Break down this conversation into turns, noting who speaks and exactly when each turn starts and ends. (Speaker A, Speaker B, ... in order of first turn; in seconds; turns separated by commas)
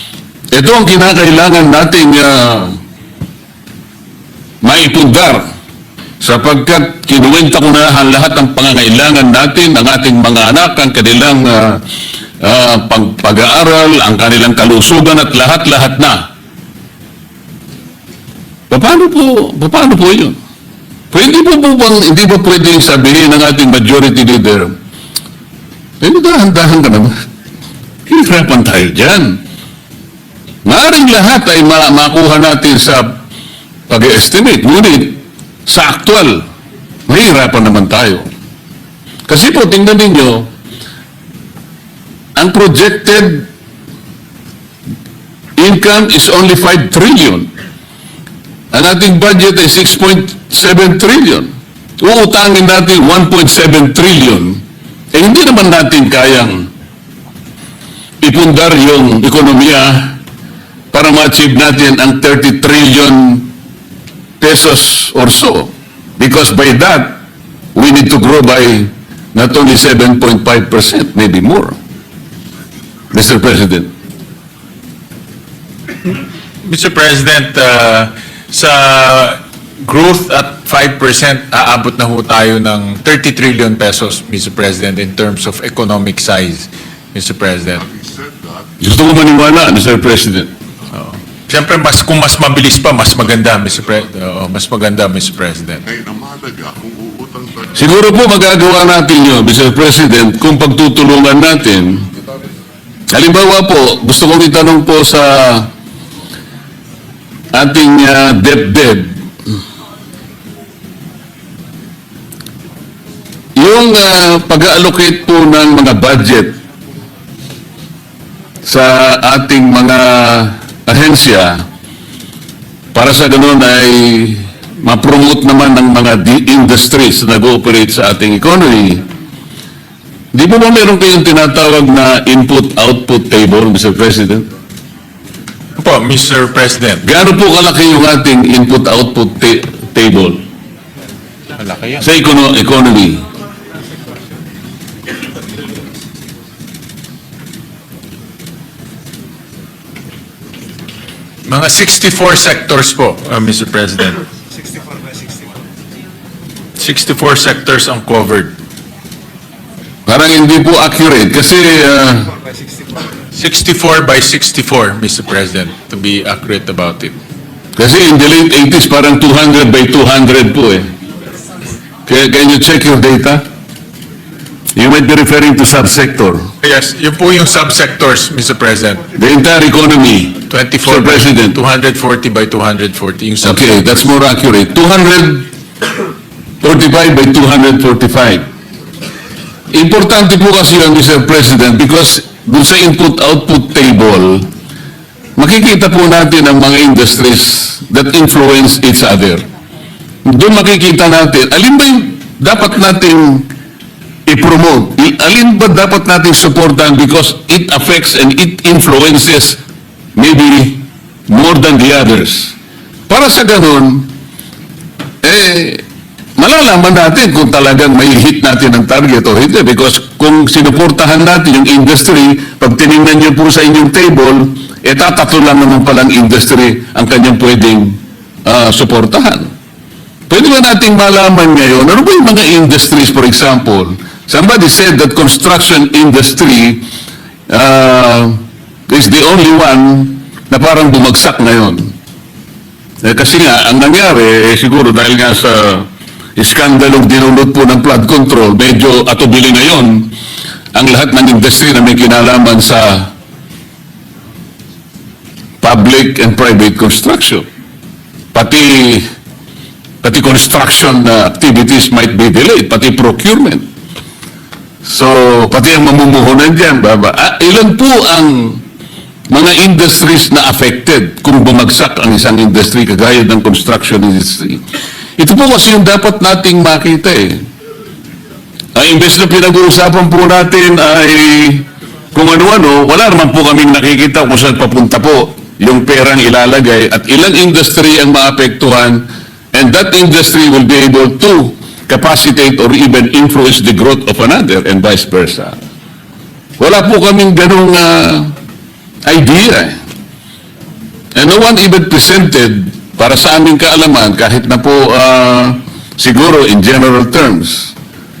Speaker A: 0.5-2.8, Speaker A: 4.6-5.4, Speaker A: 6.2-11.8, Speaker A: 12.4-16.3, Speaker A: 18.7-20.4, Speaker A: 21.1-24.7, Speaker A: 26.0-27.1, Speaker A: 28.1-29.4, Speaker A: 30.6-33.2, Speaker A: 33.9-36.4, Speaker A: 37.1-38.3, Speaker A: 39.3-40.5, Speaker A: 42.4-43.5, Speaker A: 45.6-47.5, Speaker A: 48.7-51.5, Speaker A: 52.0-56.7, Speaker A: 58.2-60.2, Speaker A: 60.9-63.5, Speaker A: 64.4-67.2, Speaker A: 67.7-71.8, Speaker A: 73.1-73.9, Speaker B: 76.6-87.9, Speaker C: 87.9-88.7, Speaker A: 88.8-90.5, Speaker B: 90.9-95.8, Speaker C: 95.9-97.7, Speaker A: 97.7-102.1, Speaker A: 103.1-105.7, Speaker A: 107.5-109.2, Speaker A: 113.6-116.6, Speaker A: 118.6-121.6, Speaker A: 122.9-129.0, Speaker A: 130.3-134.5, Speaker B: 135.8-137.0, Speaker A: 137.0-140.4, Speaker B: 141.6-142.0, Speaker A: 142.0-143.2, Speaker B: 151.5-154.2, Speaker B: 156.8-158.5, Speaker A: 160.1-162.3, Speaker B: 163.3-167.1, Speaker A: 167.8-170.9, Speaker A: 172.1-173.4, Speaker A: 174.7-176.4, Speaker B: 176.6-179.0, Speaker A: 179.2-181.6, Speaker B: 180.5-184.1, Speaker A: 183.4-185.4, Speaker A: 186.6-188.4, Speaker A: 189.7-194.4, Speaker A: 195.4-199.4, Speaker A: 200.2-203.5, Speaker A: 204.2-209.6, Speaker A: 210.2-212.6, Speaker A: 213.1-214.1, Speaker A: 215.2-215.8, Speaker A: 216.4-229.5, Speaker A: 230.3-236.8, Speaker A: 237.5-241.9, Speaker A: 243.0-250.1, Speaker A: 250.7-253.1, Speaker A: 255.6-257.4, Speaker A: 258.3-259.1, Speaker A: 260.0-263.6, Speaker A: 264.8-268.6, Speaker A: 269.3-274.6, Speaker A: 275.2-277.4, Speaker A: 278.8-295.6, Speaker A: 296.6-298.3, Speaker A: 299.0-299.8, Speaker A: 301.1-307.7